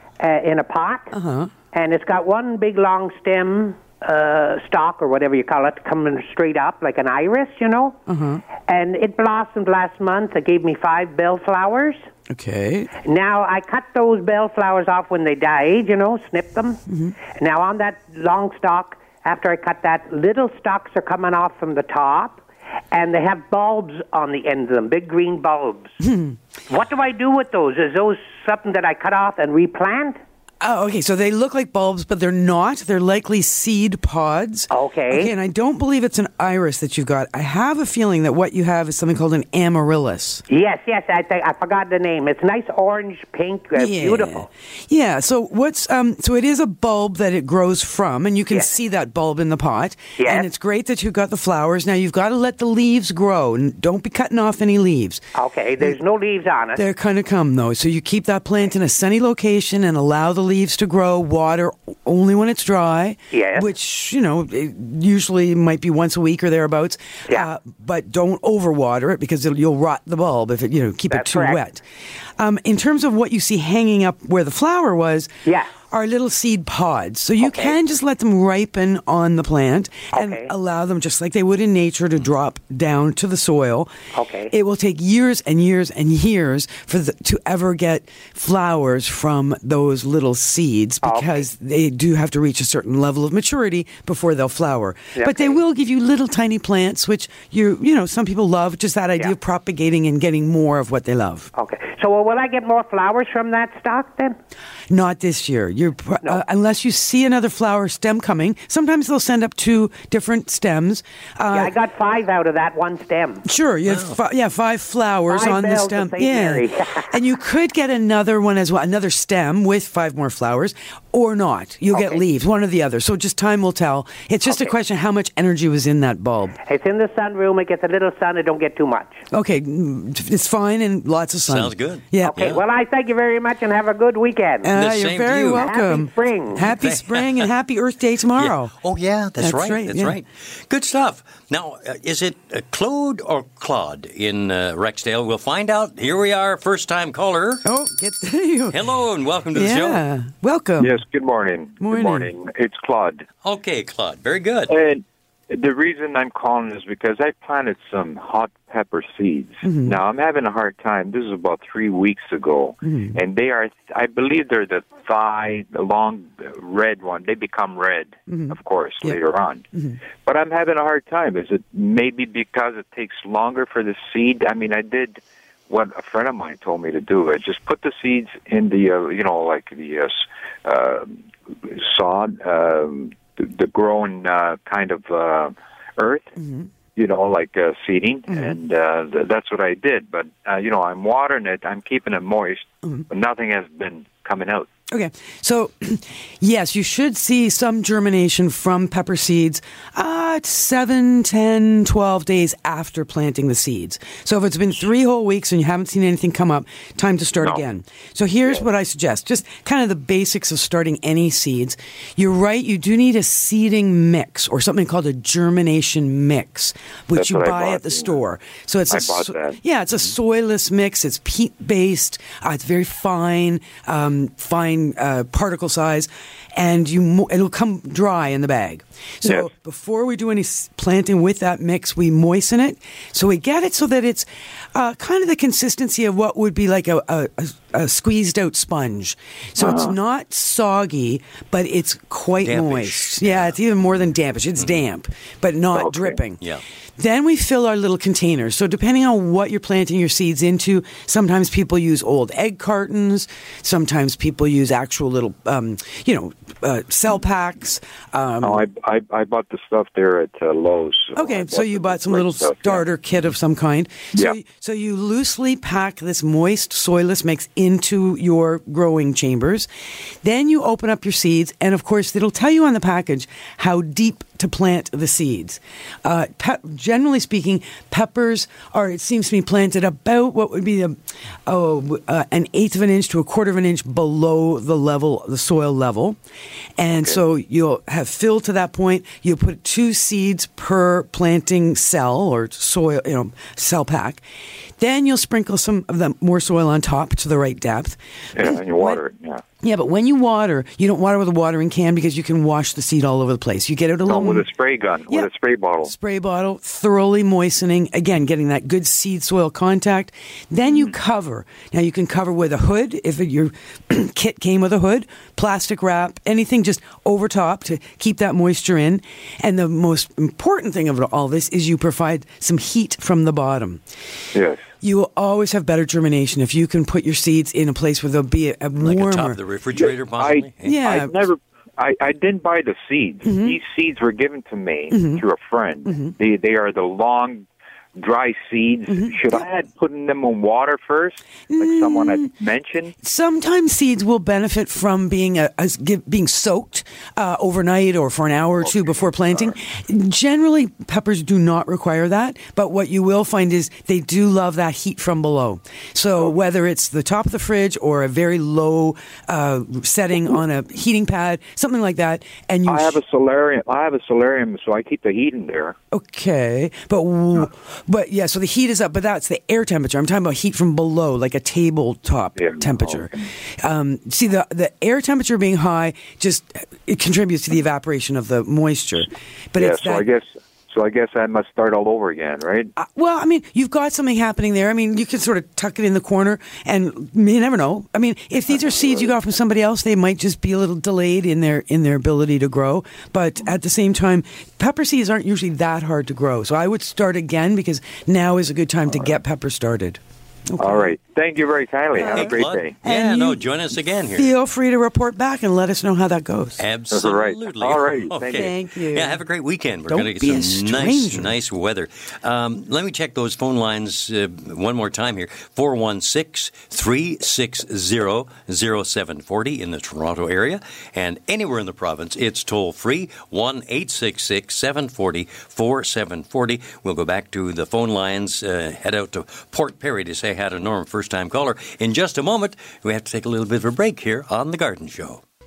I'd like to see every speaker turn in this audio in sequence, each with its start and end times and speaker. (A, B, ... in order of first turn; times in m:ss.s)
0:00.2-0:01.1 A
0:01.1-0:01.5 B
0:01.7-0:08.0 A
0:08.1-0:08.4 B
0:08.7-0:12.0 A
0:12.3-0:12.9 B
0:13.0-0:16.8 A
0:16.9-0:17.1 B
0:17.3-0:25.9 A
0:26.0-0:26.4 B
0:26.7-0:30.2 A
0:30.6-0:40.4 B
0:34.7-0:35.3 A
0:40.5-0:44.5 A
0:43.8-0:55.2 B
0:50.2-0:50.5 A
0:55.3-0:56.8 A
0:56.7-1:11.8 B
1:03.3-1:03.7 A
1:11.1-1:11.6 A
1:12.4-1:15.3 B
1:15.4-1:15.7 A
1:15.9-1:23.9 B
1:17.4-1:17.7 A
1:20.1-1:20.5 A
1:24.1-1:24.5 A
1:24.5-1:41.5 B
1:31.0-1:31.4 A
1:35.2-1:35.6 A
1:41.5-1:44.4 A
1:44.9-1:51.7 B
1:51.5-1:53.4 A
1:53.4-2:06.6 B
1:53.9-1:54.2 C
1:55.3-1:57.1 A
2:01.9-2:02.2 A
2:04.5-2:04.7 A
2:06.6-2:09.2 A
2:09.3-2:12.5 B
2:11.5-2:12.6 C
2:12.2-2:14.7 A
2:14.6-2:18.7 B
2:14.7-2:15.6 C
2:15.6-2:16.6 A
2:16.6-2:17.5 C
2:18.4-2:27.6 C
2:19.4-2:20.2 B
2:27.6-2:28.8 B
2:28.7-2:30.0 C
2:29.5-2:31.0 B
2:30.8-2:33.2 D
2:31.8-2:32.3 B
2:33.4-2:34.7 C
2:34.7-2:49.6 D
2:39.6-2:40.0 B
2:42.8-2:43.2 B
2:48.3-2:49.2 B
2:49.7-2:50.0 B
2:50.2-3:06.3 D
3:06.4-3:06.7 B
3:07.0-3:14.7 D
3:08.3-3:08.6 B
3:14.9-4:06.4 B
3:37.2-3:38.1 D
3:38.9-3:39.6 D
3:59.6-3:59.9 D
4:02.4-4:03.6 C
4:05.7-4:06.2 D
4:07.0-4:18.6 B
4:18.4-4:22.8 D
4:21.1-4:29.7 B
4:30.2-4:46.2 B
4:46.8-4:54.2 B
4:54.8-4:59.0 B
4:58.4-4:59.4 D
4:59.6-5:04.5 B
5:04.0-5:05.9 D
5:05.8-5:23.8 B
5:24.3-5:24.6 D
5:24.8-5:29.4 B
5:28.8-5:30.8 C
5:29.8-5:42.9 D
5:30.6-5:31.1 B
5:33.2-5:33.6 B
5:34.9-5:35.2 B
5:35.8-5:36.1 B
5:38.9-5:39.4 B
5:41.5-5:42.3 B
5:43.0-6:03.0 B
5:48.6-5:49.5 D
6:02.7-6:05.8 D
6:05.9-6:20.0 B
6:12.4-6:13.2 D
6:19.6-6:22.7 D
6:22.8-6:40.9 B
6:28.7-6:29.0 D
6:40.6-6:42.7 D
6:41.9-6:43.5 B
6:42.0-6:44.3 C
6:44.1-6:46.6 B
6:46.6-7:15.2 C
6:46.9-6:48.5 D
6:48.3-6:49.2 B
6:49.9-6:51.4 B